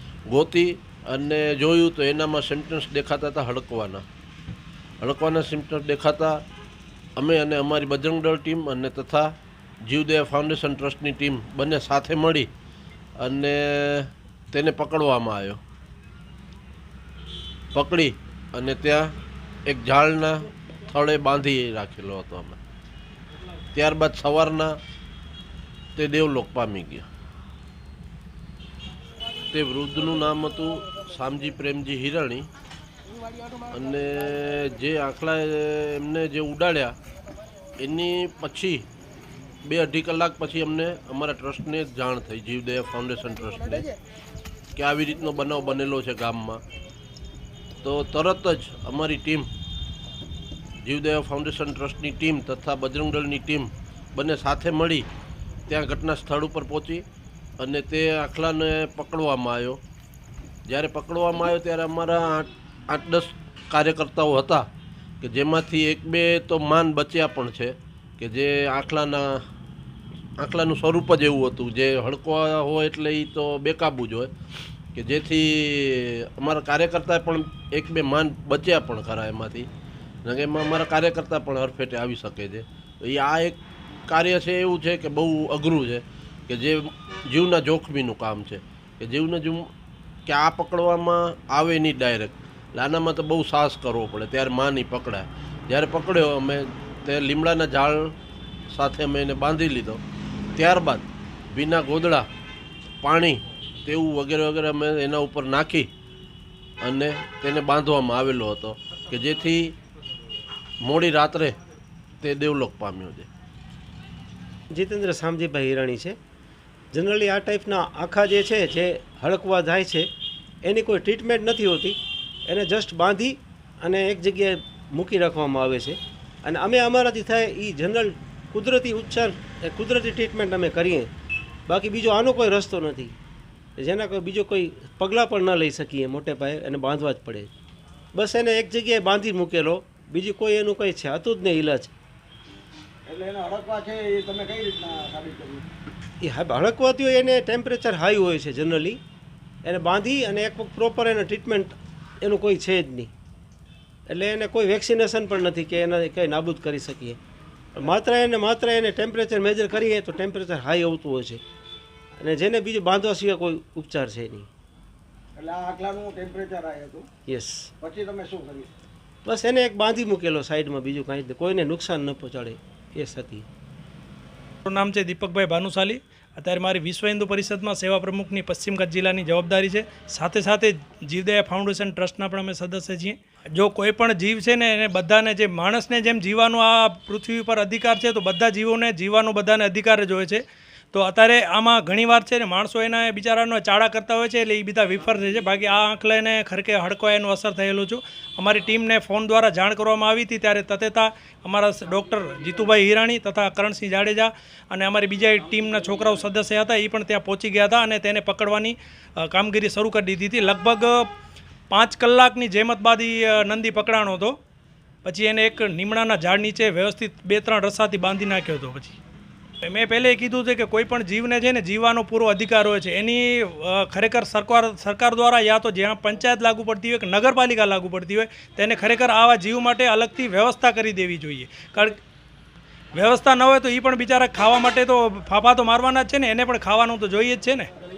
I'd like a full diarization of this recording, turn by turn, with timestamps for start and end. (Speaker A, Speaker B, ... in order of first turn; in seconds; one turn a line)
Speaker A: 0.3-4.1
Speaker A: 5.0-6.4
Speaker A: 7.2-9.3
Speaker A: 9.8-12.5
Speaker A: 13.2-15.6
Speaker A: 17.7-19.1
Speaker A: 19.7-22.6
Speaker A: 23.7-24.8
Speaker A: 26.0-27.1
Speaker A: 29.5-32.5
Speaker A: 33.7-37.0
Speaker A: 37.8-38.9
Speaker A: 39.6-43.9
Speaker A: 44.8-46.6
Speaker A: 47.8-49.5
Speaker A: 50.8-55.1
Speaker A: 55.7-57.0
Speaker A: 57.6-59.8
Speaker A: 60.7-64.7
Speaker A: 65.2-69.4
Speaker A: 70.4-74.3
Speaker A: 75.0-79.7
Speaker A: 80.2-89.7
Speaker A: 90.3-98.1
Speaker A: 98.7-100.0
Speaker A: 100.6-102.3
Speaker A: 103.0-105.9
Speaker A: 106.8-109.8
Speaker A: 110.8-111.6
Speaker A: 112.2-113.3
Speaker B: 114.7-116.2
Speaker B: 116.9-120.1
Speaker B: 120.7-131.1
Speaker B: 131.7-133.2
Speaker B: 133.8-137.5
Speaker B: 138.2-141.9
Speaker C: 143.1-145.6
Speaker B: 146.2-149.0
Speaker B: 149.7-153.1
Speaker B: 154.1-157.2
Speaker B: 157.8-161.4
Speaker B: 162.2-164.5
Speaker C: 165.4-167.1
Speaker B: 167.3-167.7
Speaker C: 167.8-168.7
Speaker B: 169.2-173.5
Speaker D: 174.7-211.1
Speaker D: 211.7-214.4
Speaker D: 215.1-219.0
Speaker D: 219.6-232.0
Speaker D: 232.9-237.7